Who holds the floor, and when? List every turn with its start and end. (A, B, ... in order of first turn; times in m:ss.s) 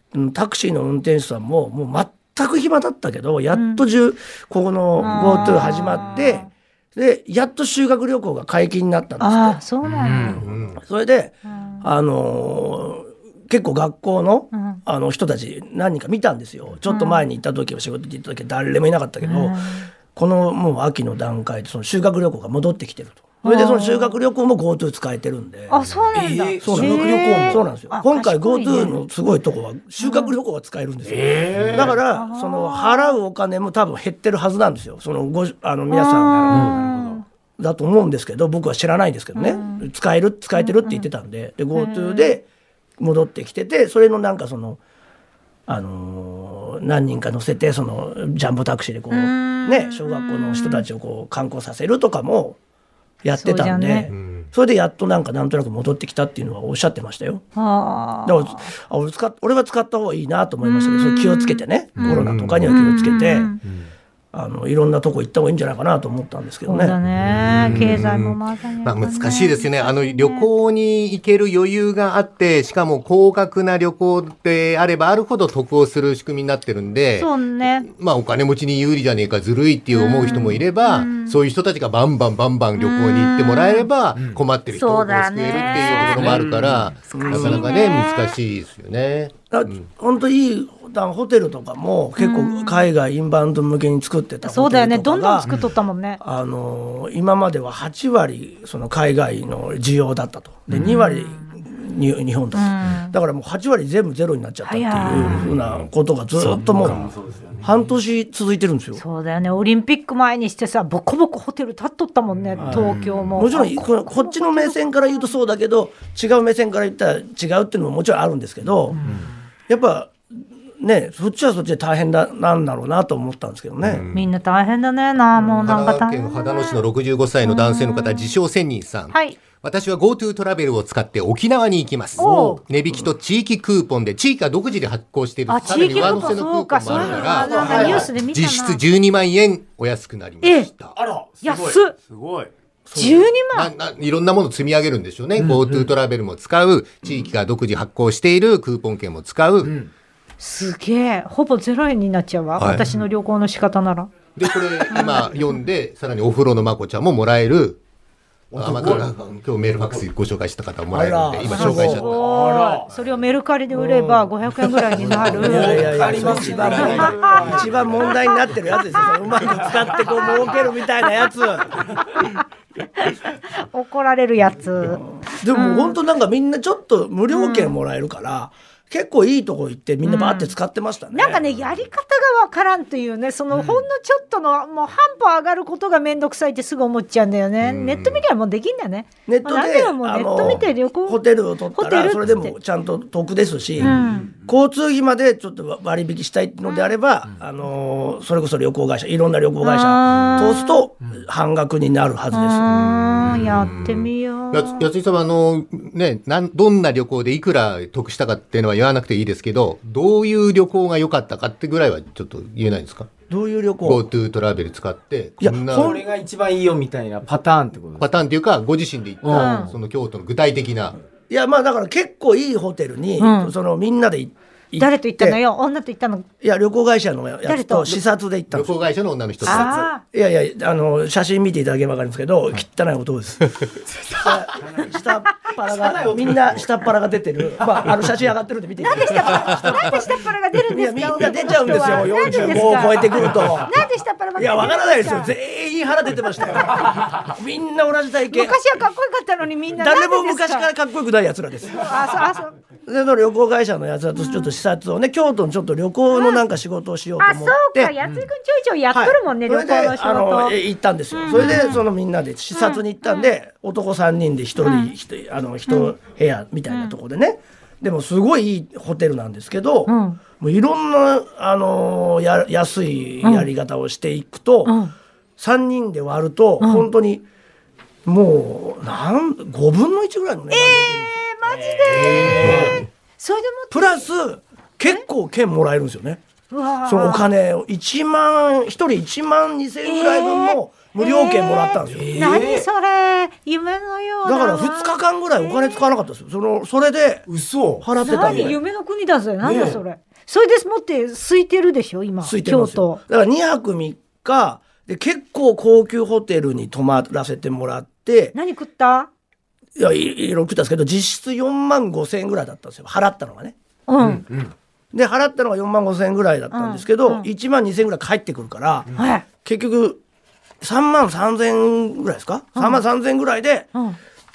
0:00.1-0:09.6 A
0:03.5-0:03.8 B
0:05.0-0:06.5 B
0:09.2-0:10.4 B
0:09.9-0:10.4 C
0:10.4-0:10.8 D
0:10.7-0:25.8 A
0:11.4-0:11.9 B
0:14.5-0:14.8 B
0:16.9-0:17.2 B
0:19.2-0:19.9 B
0:23.4-0:24.2 B
0:25.7-0:29.0 B
0:26.1-0:27.6 C
0:26.6-0:36.8 A
0:30.0-0:30.3 B
0:31.0-0:32.0 C
0:31.9-0:33.2 B
0:35.9-0:37.2 B
0:36.5-0:36.9 C
0:37.6-0:42.4 A
0:39.3-0:39.8 B
0:40.6-0:41.1 B
0:41.7-0:42.4 B
0:43.0-0:44.8 A
0:45.7-0:52.6 A
0:49.1-0:50.8 B
0:53.2-0:57.4 A
0:53.3-0:54.1 B
0:54.1-0:54.5 D
0:57.6-0:58.7 B
0:58.2-1:03.6 A
1:00.6-1:03.6 B
1:02.0-1:02.8 D
1:04.3-1:07.0 A
1:06.6-1:10.5 B
1:07.2-1:17.3 D
1:17.2-1:17.9 B
1:17.8-1:29.8 D
1:19.9-1:21.4 B
1:22.8-1:23.9 B
1:24.2-1:24.4 C
1:24.7-1:26.4 B
1:25.8-1:27.4 E
1:26.1-1:26.5 C
1:27.1-1:27.7 A
1:27.3-1:28.4 B
1:29.5-1:35.5 A
1:32.2-1:32.9 B
1:34.4-1:36.2 B
1:36.2-1:47.0 A
1:40.7-1:41.6 B
1:42.5-1:43.2 B
1:44.6-1:45.5 B
1:45.2-1:45.5 C
1:46.4-1:47.6 C
1:46.8-1:47.6 E
1:47.6-1:49.0 A
1:49.0-1:55.3 B
1:52.6-1:59.0 A
1:52.6-1:53.0 C
1:59.7-2:04.0 A
2:03.8-2:04.3 D
2:04.1-2:06.8 B
2:05.4-2:20.9 D
2:07.4-2:08.3 B
2:09.1-2:09.4 B
2:12.2-2:12.6 B
2:12.2-2:13.1 A
2:15.5-2:18.8 B
2:15.6-2:16.4 C
2:16.9-2:18.1 C
2:17.4-2:18.0 A
2:20.4-2:20.7 B
2:21.0-2:21.8 C
2:21.4-2:21.9 B
2:21.9-2:22.5 E
2:22.8-2:23.3 A
2:22.9-2:23.7 B
2:23.5-2:29.8 D
2:25.4-2:25.9 C
2:29.6-2:29.9 C
2:30.4-2:34.1 B
2:32.6-2:32.8 D
2:34.4-2:37.8 D
2:34.9-2:35.4 B
2:38.5-2:39.1 C
2:38.5-2:42.2 D
2:40.9-2:42.2 A
2:41.4-2:47.4 B
2:41.5-2:42.9 C
2:43.7-2:44.3 A
2:44.7-2:47.9 D
2:45.4-2:48.0 C
2:45.4-2:51.8 A
2:48.0-2:49.2 B
2:49.7-2:52.4 B
2:53.0-2:56.0 B
2:55.0-3:01.4 A
2:57.3-2:57.8 B
3:00.0-3:00.5 B
3:01.1-3:11.2 B
3:03.5-3:03.8 C
3:07.6-3:08.2 D
3:09.3-3:22.7 A
3:11.7-3:12.5 B
3:13.8-3:14.1 C
3:13.8-3:14.3 B
3:16.6-3:16.9 B
3:19.6-3:20.8 B
3:22.3-3:24.9 B
3:22.7-3:33.1 D
3:33.3-3:34.0 A
3:33.8-3:36.0 D
3:35.4-3:36.0 A
3:35.7-3:38.1 C
3:38.0-3:41.0 D
3:39.2-3:39.7 C
3:39.3-3:39.7 B
3:41.3-3:45.4 A
3:43.2-3:43.5 B
3:44.8-3:46.3 B
3:46.4-3:48.8 A
3:47.4-3:48.0 B
3:48.5-3:49.9 D
3:49.4-4:00.2 A
3:49.4-3:50.0 B
3:53.8-3:54.8 C
3:55.6-3:56.7 C
3:58.8-4:05.3 B
4:00.7-4:03.7 A
4:04.4-4:08.6 A
4:08.3-4:10.7 B
4:09.8-4:12.3 A
4:11.7-4:12.5 B
4:12.8-4:17.9 A
4:14.2-4:14.5 B
4:16.1-4:16.4 B
4:17.2-4:20.6 B
4:18.0-4:18.3 C
4:18.9-4:34.7 A
4:21.1-4:21.8 B
4:21.4-4:21.8 C
4:22.5-4:23.3 B
4:24.6-4:24.9 B
4:25.7-4:25.9 B
4:26.7-4:26.9 B
4:29.9-4:30.2 B
4:33.2-4:33.5 B
4:34.6-4:34.9 B
4:35.4-4:37.2 A
4:36.6-4:36.9 B
4:38.0-4:41.2 A
4:40.5-4:44.1 B
4:41.6-4:42.8 C
4:42.0-4:42.8 A
4:43.7-4:46.2 A
4:46.5-4:47.3 B
4:46.8-4:52.3 A
4:49.8-4:55.9 B
4:51.8-4:52.7 C
4:54.2-4:57.3 A
4:57.3-4:58.6 C
4:57.8-4:58.6 A
4:58.0-5:03.0 B
4:59.4-4:59.8 C
5:02.2-5:08.3 A
5:08.3-5:09.1 B
5:09.8-5:13.5 A
5:13.9-5:14.2 B
5:14.0-5:14.5 C
5:14.9-5:20.0 A
5:16.5-5:17.3 B
5:19.0-5:19.2 B
5:20.6-5:23.7 A
5:22.5-5:22.8 B